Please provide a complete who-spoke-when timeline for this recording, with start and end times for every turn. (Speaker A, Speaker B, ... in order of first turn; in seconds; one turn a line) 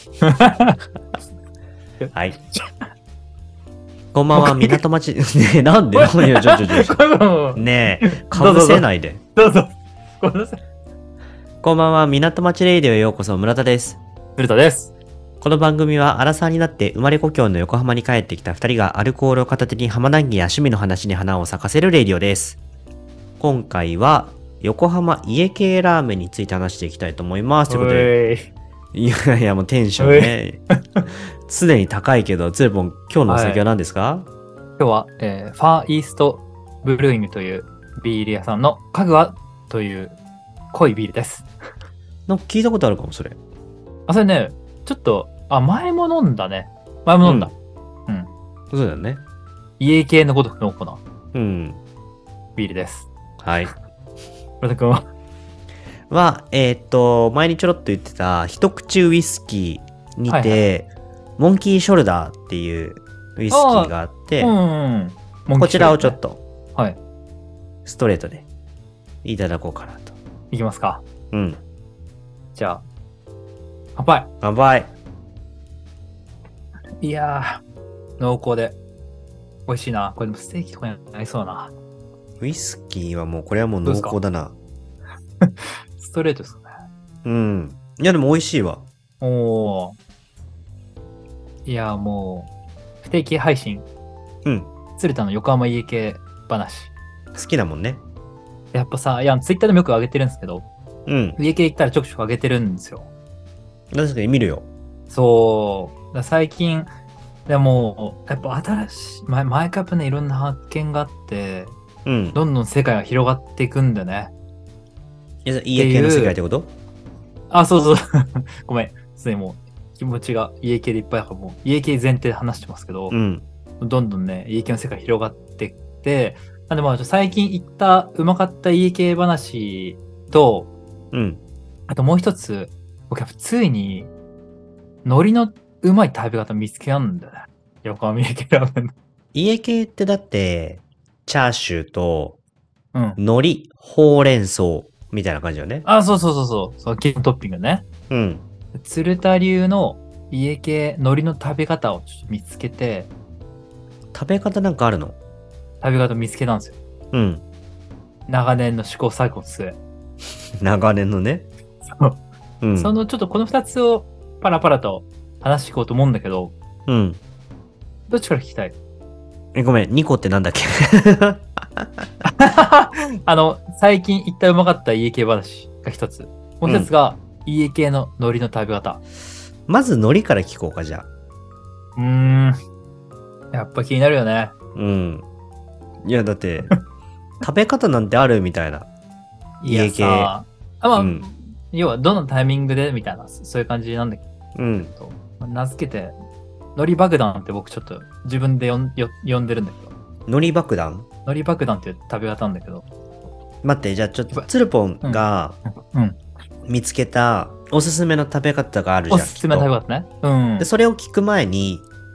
Speaker A: 0.2-0.8
Speaker A: 2.0-2.8
Speaker B: 4.1-7.0
Speaker A: 4.3-4.8
Speaker A: 5.9-10.6
Speaker B: 7.5-9.2
Speaker B: 11.6-14.0
Speaker A: 14.4-14.9
Speaker B: 15.4-22.6
Speaker B: 23.4-28.1
Speaker A: 27.7-28.5
Speaker B: 28.9-30.6
Speaker A: 30.0-30.4
Speaker B: 31.4-34.3
Speaker A: 33.3-33.6
Speaker A: 34.8-40.2
Speaker A: 40.7-41.5
Speaker B: 42.3-43.4
Speaker A: 44.1-47.5
Speaker B: 47.2-47.5
Speaker B: 48.7-49.2
Speaker A: 49.8-51.0
Speaker B: 51.3-51.8
Speaker A: 52.6-53.1
Speaker B: 53.4-53.7
Speaker A: 54.6-55.1
Speaker B: 56.1-64.6
Speaker A: 60.3-60.6
Speaker A: 63.5-66.2
Speaker B: 65.6-66.4
Speaker B: 67.8-68.5
Speaker B: 69.2-70.2
Speaker A: 70.5-71.0
Speaker B: 71.3-71.6
Speaker A: 72.5-72.8
Speaker A: 74.0-74.3
Speaker B: 74.4-74.9
Speaker A: 77.0-77.6
Speaker A: 78.2-78.8
Speaker A: 79.7-81.7
Speaker B: 82.4-84.5
Speaker A: 83.8-84.2
Speaker A: 85.4-86.7
Speaker B: 87.2-88.8
Speaker A: 89.2-90.0
Speaker A: 91.7-92.5
Speaker A: 93.0-93.9
Speaker B: 94.5-94.7
Speaker A: 95.0-96.9
Speaker B: 97.3-98.0
Speaker A: 98.7-100.7
Speaker B: 101.1-101.4
Speaker A: 101.4-103.1
Speaker B: 103.9-104.7
Speaker A: 105.1-106.9
Speaker A: 107.5-111.8
Speaker B: 112.0-112.4
Speaker A: 112.3-114.3
Speaker B: 115.5-116.7
Speaker A: 115.8-116.4
Speaker A: 117.5-123.2
Speaker B: 123.1-123.5
Speaker A: 123.8-130.7
Speaker B: 131.1-131.4
Speaker A: 131.9-134.1
Speaker A: 135.1-138.9
Speaker B: 139.3-142.4
Speaker A: 142.9-143.2
Speaker B: 143.2-145.9
Speaker A: 145.8-147.9
Speaker B: 148.1-148.4
Speaker A: 148.7-153.1
Speaker B: 154.1-155.2
Speaker A: 155.8-156.8
Speaker B: 157.1-157.4
Speaker A: 158.3-159.8
Speaker B: 160.6-161.5
Speaker A: 161.9-162.2
Speaker B: 162.6-162.9
Speaker A: 162.8-166.6
Speaker B: 166.9-167.2
Speaker A: 168.1-168.8
Speaker B: 169.5-172.1
Speaker A: 172.3-179.0
Speaker B: 176.7-176.9
Speaker B: 179.7-181.1
Speaker A: 182.0-182.6
Speaker A: 183.5-184.5
Speaker B: 184.8-185.3
Speaker B: 186.0-186.8
Speaker B: 187.4-188.9
Speaker A: 189.6-194.2
Speaker B: 189.7-190.3
Speaker B: 190.9-191.2
Speaker B: 194.6-194.9
Speaker A: 194.8-196.2
Speaker A: 196.8-199.9
Speaker B: 200.3-201.1
Speaker A: 201.3-202.9
Speaker B: 203.6-205.6
Speaker A: 205.0-206.2
Speaker B: 206.7-209.7
Speaker A: 209.1-210.7
Speaker B: 210.6-211.9